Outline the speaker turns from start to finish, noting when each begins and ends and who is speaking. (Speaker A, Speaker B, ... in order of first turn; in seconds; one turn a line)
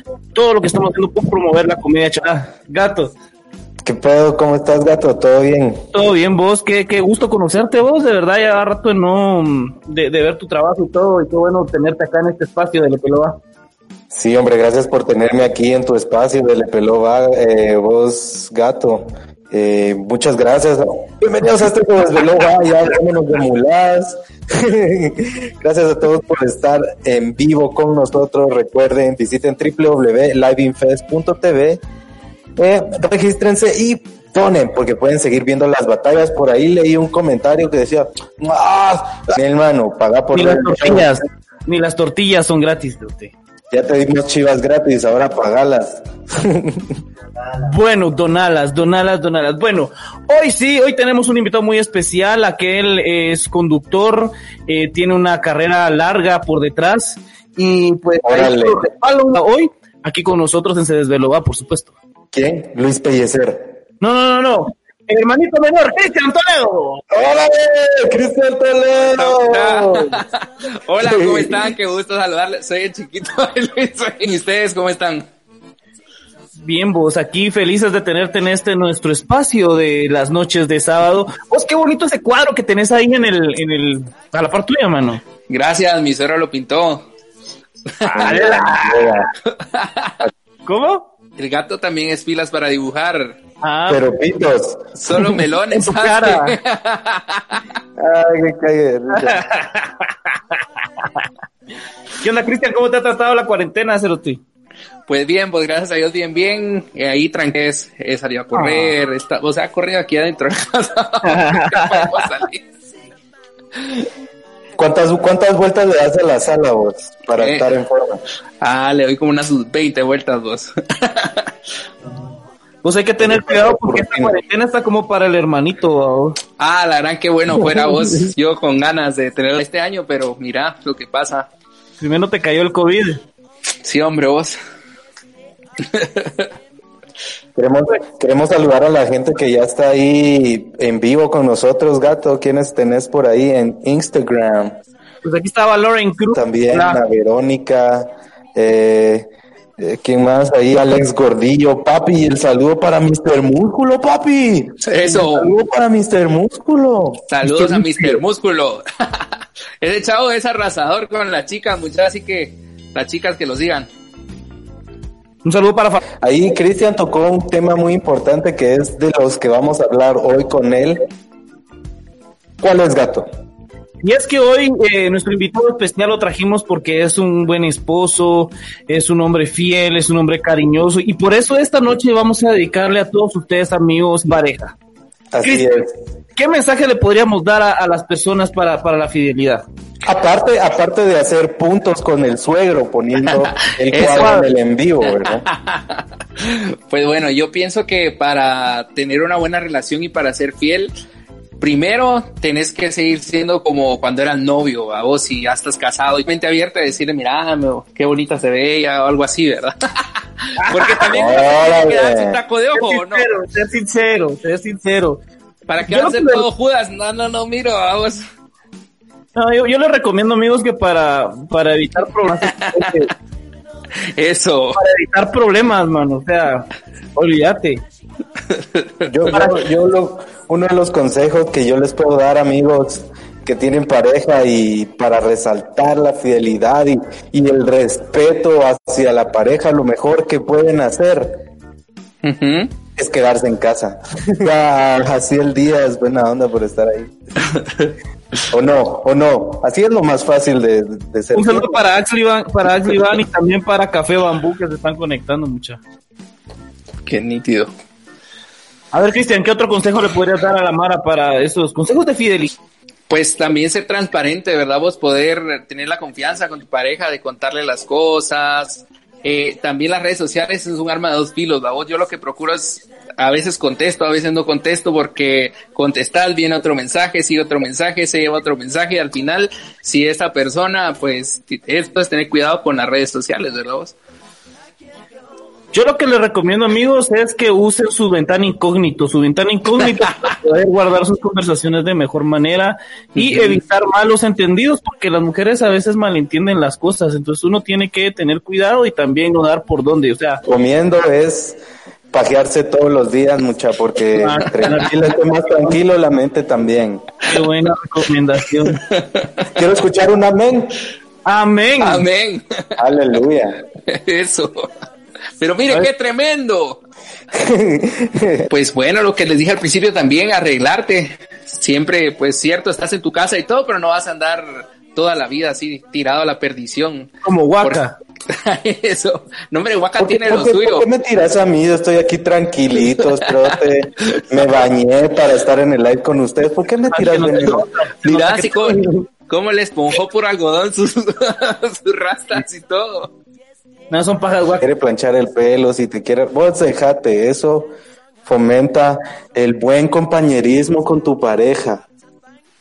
Speaker A: 0.3-3.1
Speaker B: 3.8-5.8
Speaker A: 5.9-13.4
Speaker B: 14.1-31.8
Speaker B: 32.6-41.2
Speaker A: 40.3-43.3
Speaker B: 43.7-47.0
Speaker A: 47.6-61.9
Speaker B: 58.2-58.8
Speaker B: 62.3-63.7
Speaker A: 64.0-67.0
Speaker B: 67.1-70.2
Speaker C: 69.0-75.2
Speaker B: 71.0-71.7
Speaker A: 76.6-85.2
Speaker C: 85.5-87.1
Speaker C: 88.0-88.4
Speaker A: 88.0-89.2
Speaker B: 88.1-89.3
Speaker C: 89.5-90.2
Speaker A: 90.7-91.1
Speaker C: 91.4-93.4
Speaker A: 93.6-94.0
Speaker B: 93.9-94.9
Speaker C: 95.0-97.6
Speaker A: 95.2-96.6
Speaker B: 98.0-99.4
Speaker A: 99.1-101.2
Speaker A: 102.2-104.4
Speaker C: 105.1-112.6
Speaker A: 108.5-108.9
Speaker A: 111.2-112.2
Speaker B: 114.8-118.2
Speaker C: 117.4-117.7
Speaker C: 118.6-121.5
Speaker A: 122.8-126.4
Speaker B: 123.2-124.4
Speaker C: 126.6-131.5
Speaker B: 127.6-128.3
Speaker A: 132.0-133.2
Speaker C: 133.8-134.6
Speaker C: 135.8-136.5
Speaker B: 137.6-144.8
Speaker A: 145.2-147.0
Speaker B: 146.3-149.3
Speaker B: 149.8-158.2
Speaker C: 154.8-155.5
Speaker C: 157.3-163.9
Speaker A: 165.4-166.0
Speaker B: 166.2-171.1
Speaker B: 172.6-173.3
Speaker A: 174.0-184.7
Speaker B: 185.3-185.9
Speaker A: 185.4-185.8
Speaker A: 186.3-189.6
Speaker B: 190.0-195.4
Speaker C: 193.3-194.3
Speaker A: 194.0-194.4
Speaker C: 195.1-200.9
Speaker C: 201.6-213.3
Speaker A: 210.6-211.1
Speaker B: 211.1-212.4
Speaker A: 212.7-215.2
Speaker C: 215.7-218.2
Speaker A: 215.8-216.4
Speaker A: 219.3-223.1
Speaker C: 222.4-222.9
Speaker C: 224.0-224.8
Speaker A: 224.7-227.8
Speaker C: 228.5-229.1
Speaker B: 229.0-241.4
Speaker C: 242.2-242.7
Speaker B: 243.0-247.1
Speaker C: 247.5-247.9
Speaker B: 248.5-251.8
Speaker A: 251.3-255.8
Speaker C: 257.1-257.7
Speaker A: 258.9-262.5
Speaker C: 263.1-283.9
Speaker A: 285.7-300.4
Speaker C: 293.1-293.6
Speaker B: 300.4-301.6
Speaker B: 302.1-307.1
Speaker A: 304.1-305.0
Speaker A: 307.3-308.8
Speaker C: 308.7-309.3
Speaker B: 309.5-310.8
Speaker A: 311.2-312.1
Speaker C: 311.8-312.8
Speaker B: 312.8-313.6
Speaker C: 313.9-314.7
Speaker C: 315.4-316.8
Speaker B: 317.3-318.5
Speaker C: 318.5-330.9
Speaker A: 327.2-328.0
Speaker B: 330.0-337.6
Speaker C: 333.2-333.5
Speaker A: 336.9-338.9
Speaker C: 338.0-343.1
Speaker A: 343.9-344.6
Speaker B: 344.6-347.7
Speaker B: 348.2-351.8